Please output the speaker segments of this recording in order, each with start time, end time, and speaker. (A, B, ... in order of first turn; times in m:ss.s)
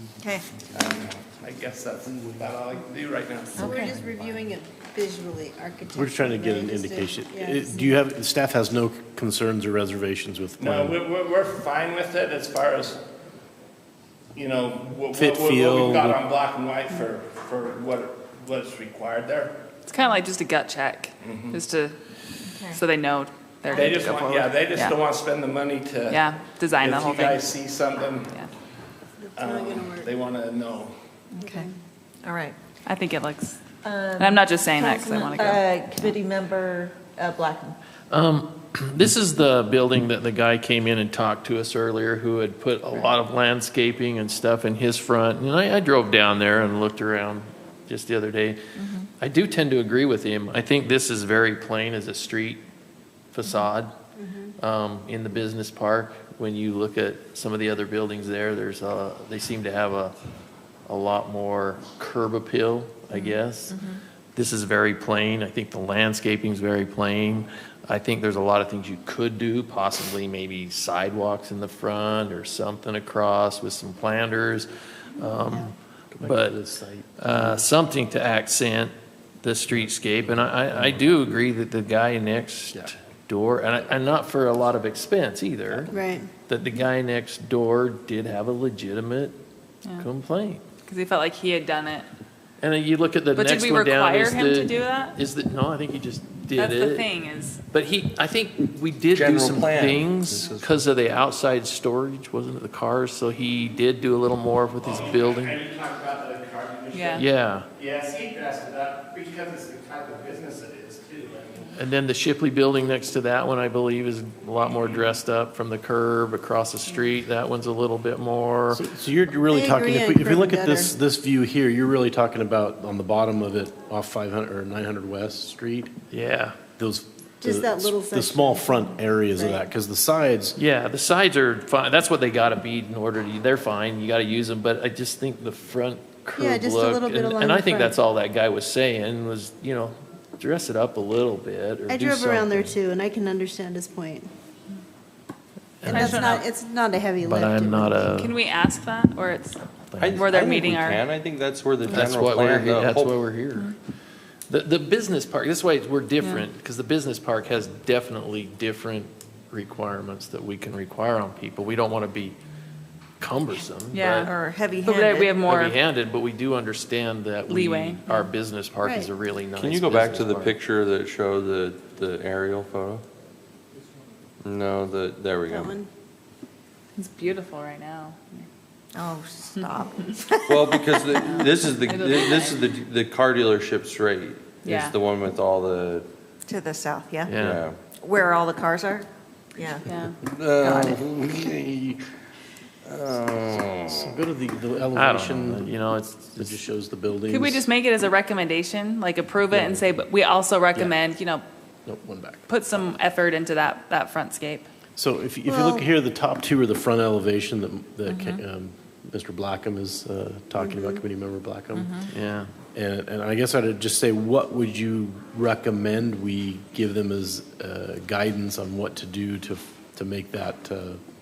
0:00.7-0:03.7 A
0:03.5-0:07.9 B
0:03.6-0:03.9 C
0:05.9-0:11.0 D
0:10.6-0:13.0 A
0:14.3-0:19.6 A
0:15.1-0:16.2 D
0:19.9-0:21.9 E
0:21.2-0:21.6 A
0:22.5-0:22.8 C
0:22.7-0:25.0 E
0:23.7-0:24.0 C
0:23.8-0:28.3 A
0:26.1-0:27.4 E
0:29.2-0:30.1 B
0:29.4-0:30.9 A
0:31.4-0:31.7 C
0:31.4-0:31.7 B
0:32.2-0:32.6 C
0:32.8-0:33.6 E
0:33.8-0:37.8 C
0:34.2-0:35.6 E
0:38.1-0:48.6 F
0:49.2-0:52.6 F
0:53.3-0:53.9 F
0:54.2-0:54.5 B
0:54.6-1:00.1 F
1:00.9-1:03.8 F
1:04.3-1:16.6 F
1:16.1-1:17.7 D
1:17.2-1:25.9 F
1:20.2-1:21.0 D
1:25.9-1:26.3 B
1:26.5-1:29.4 F
1:30.0-1:30.6 F
1:30.8-1:32.1 E
1:32.6-1:37.1 F
1:33.3-1:35.1 E
1:36.5-1:37.6 E
1:37.7-1:45.6 F
1:39.1-1:40.6 G
1:44.8-1:51.7 A
1:46.9-1:47.2 E
1:47.1-1:47.7 F
1:51.7-1:58.8 F
1:58.7-2:05.9 D
1:59.5-2:00.9 B
2:06.1-2:06.6 F
2:06.8-2:10.6 D
2:07.4-2:09.6 B
2:10.6-2:22.7 F
2:16.4-2:18.0 B
2:21.9-2:24.3 B
2:25.8-2:26.4 F
2:25.8-2:28.1 B
2:25.9-2:26.4 E
2:27.2-2:28.3 F
2:28.1-2:29.6 E
2:29.9-2:30.2 F
2:30.0-2:33.2 G
2:30.1-2:31.0 E
2:31.8-2:33.7 F
2:34.5-2:42.4 F
2:43.2-2:44.3 F
2:43.9-2:44.3 E
2:44.1-2:45.4 C
2:44.8-2:45.8 E
2:45.5-2:50.6 F
2:47.5-2:48.3 E
2:48.8-2:49.1 B
2:49.5-2:53.0 G
2:54.4-2:55.8 G
2:55.5-2:55.9 B
2:57.0-2:58.5 E
2:58.9-3:01.7 C
3:00.5-3:06.1 G
3:01.2-3:02.6 E
3:04.6-3:05.0 E
3:06.5-3:07.3 C
3:07.2-3:07.7 F
3:07.4-3:07.8 G
3:07.9-3:09.8 C
3:09.7-3:10.2 E
3:10.3-3:11.3 G
3:10.6-3:12.0 D
3:10.7-3:11.0 C
3:12.9-3:14.2 G
3:13.0-3:15.7 D
3:14.9-3:16.6 F
3:16.4-3:17.7 D
3:17.3-3:21.4 E
3:19.5-3:19.9 D
3:21.8-3:22.5 D
3:22.5-3:24.7 E
3:25.0-3:32.0 D
3:25.4-3:25.8 B
3:28.0-3:28.4 E
3:30.6-3:31.0 B
3:31.7-3:32.0 E
3:32.1-3:32.5 F
3:32.7-3:41.0 D